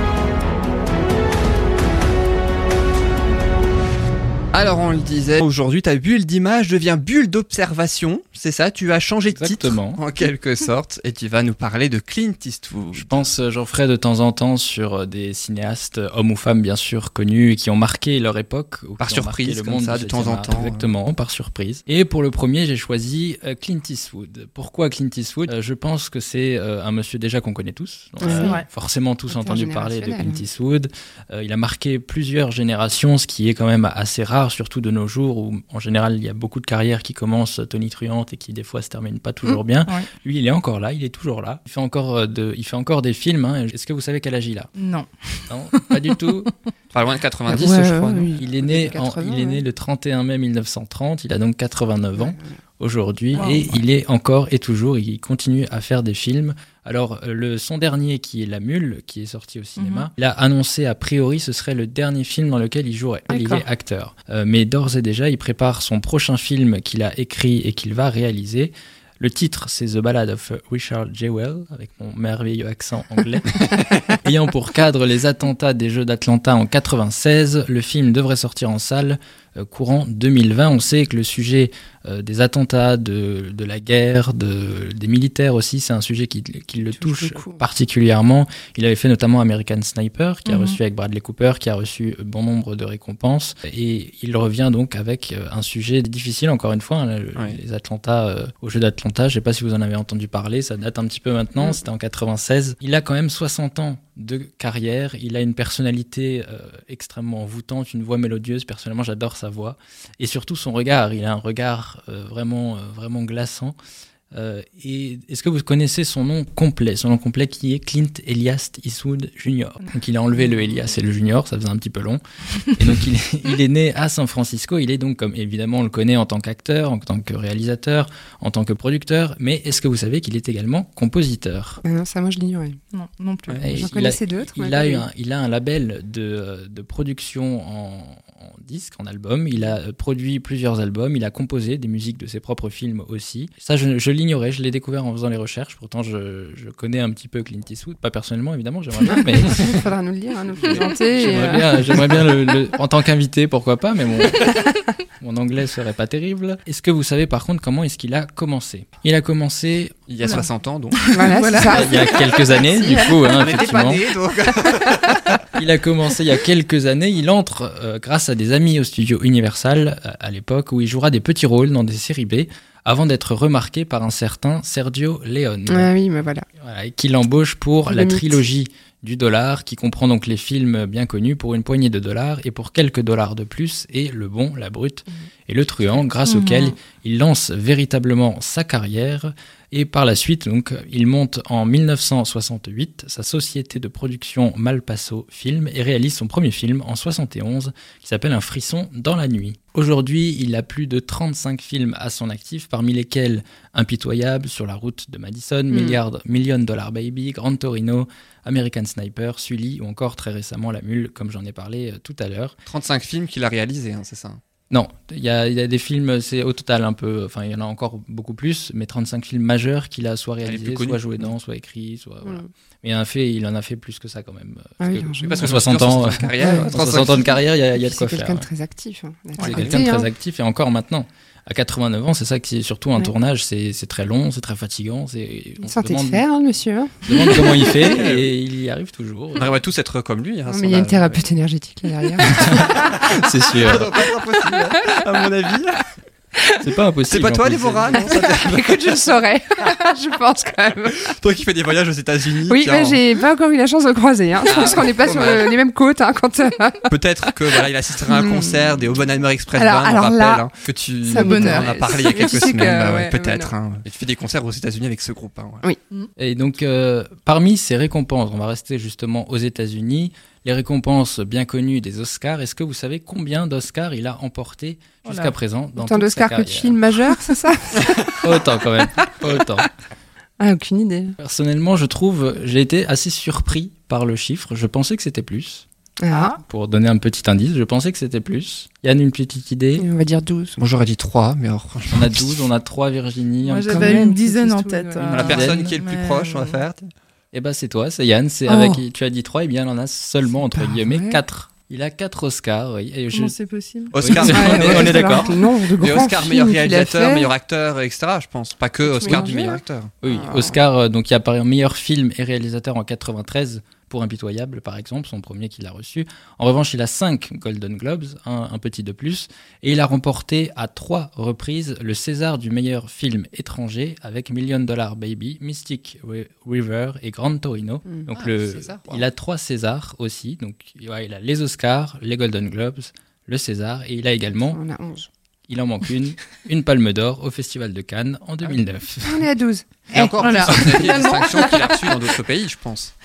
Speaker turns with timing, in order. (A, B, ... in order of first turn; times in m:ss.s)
0:04.5-0:13.3 A
0:09.3-0:10.0 B
0:12.9-0:44.7 B
0:19.0-0:20.9 A
0:28.2-0:28.6 C
0:28.4-0:28.6 D
0:29.3-0:30.4 C
0:44.8-0:45.7 D
0:45.5-0:46.5 B
0:46.9-0:48.3 A
0:47.5-0:49.6 C
0:48.3-1:53.8 B
0:52.1-0:52.6 C
0:53.3-0:53.7 D
0:59.8-1:00.1 D
1:03.3-1:03.6 D
1:26.9-1:27.6 C
1:30.5-1:30.8 D
1:37.3-1:37.6 A
1:54.3-2:02.2 B
2:02.8-2:11.8 B
2:11.8-2:12.8 C
2:12.9-2:13.7 D
2:13.6-2:29.9 B
2:13.7-2:15.1 C
2:29.1-2:32.2 C
2:30.6-2:40.0 B
2:40.1-2:41.0 A
2:40.2-2:41.9 D
2:41.1-2:43.4 C
2:41.6-2:44.0 B
2:43.2-2:45.3 A
2:44.6-2:45.2 C
2:45.6-2:55.9 B
2:55.7-2:56.5 C
2:56.6-3:32.6 B
2:57.9-2:58.4 C
3:06.2-3:06.8 D
3:25.7-3:26.0 C
3:32.7-3:34.4 A
3:34.7-3:48.5 B
3:40.4-3:41.3 A
3:44.8-3:45.6 C
3:45.2-3:47.3 A
3:46.4-3:47.0 C
3:47.7-3:50.1 C
3:49.4-3:56.2 B
3:55.6-3:57.9 C
3:57.1-3:59.6 B
3:57.7-3:58.3 A
3:59.4-4:01.2 A
4:00.5-4:02.9 C
4:02.3-4:04.0 B
4:02.6-4:05.8 A
4:04.5-4:05.0 C
4:06.4-4:06.6 C
4:06.6-4:08.0 B
4:07.1-4:08.9 A
4:07.9-4:11.1 C
4:11.0-4:13.0 A
4:12.5-4:18.9 C
4:14.4-4:15.5 A
4:16.9-4:25.6 A
4:19.5-4:20.5 C
4:21.0-4:23.6 C
4:21.1-4:22.5 D
4:26.2-4:36.8 B
4:35.0-4:35.3 D
4:35.8-4:39.0 C
4:38.2-4:39.7 B
4:40.4-4:41.2 C
4:41.2-4:45.6 B
4:46.0-4:46.4 C
4:46.1-4:46.4 D
4:46.4-4:49.8 B
4:49.8-4:50.6 C
4:50.6-4:52.5 A
4:51.9-4:54.0 B
4:53.4-4:56.6 D
4:53.7-4:55.4 C
4:55.1-4:56.9 A
4:55.2-4:55.8 B
4:57.3-5:03.3 B
4:58.4-4:58.8 C
5:00.4-5:01.2 C
5:03.1-5:04.3 D
5:03.9-5:05.2 A
5:04.0-5:05.4 B
5:04.2-5:07.3 C
5:05.8-5:09.9 A
5:08.8-5:10.6 C
5:10.0-5:34.6 B
5:28.1-5:29.0 A
5:34.5-5:35.1 C
5:35.5-5:39.3 B
5:39.0-5:39.7 C
5:39.9-5:42.9 A
5:39.9-5:41.8 D
5:40.4-5:40.8 B
5:41.1-5:41.5 C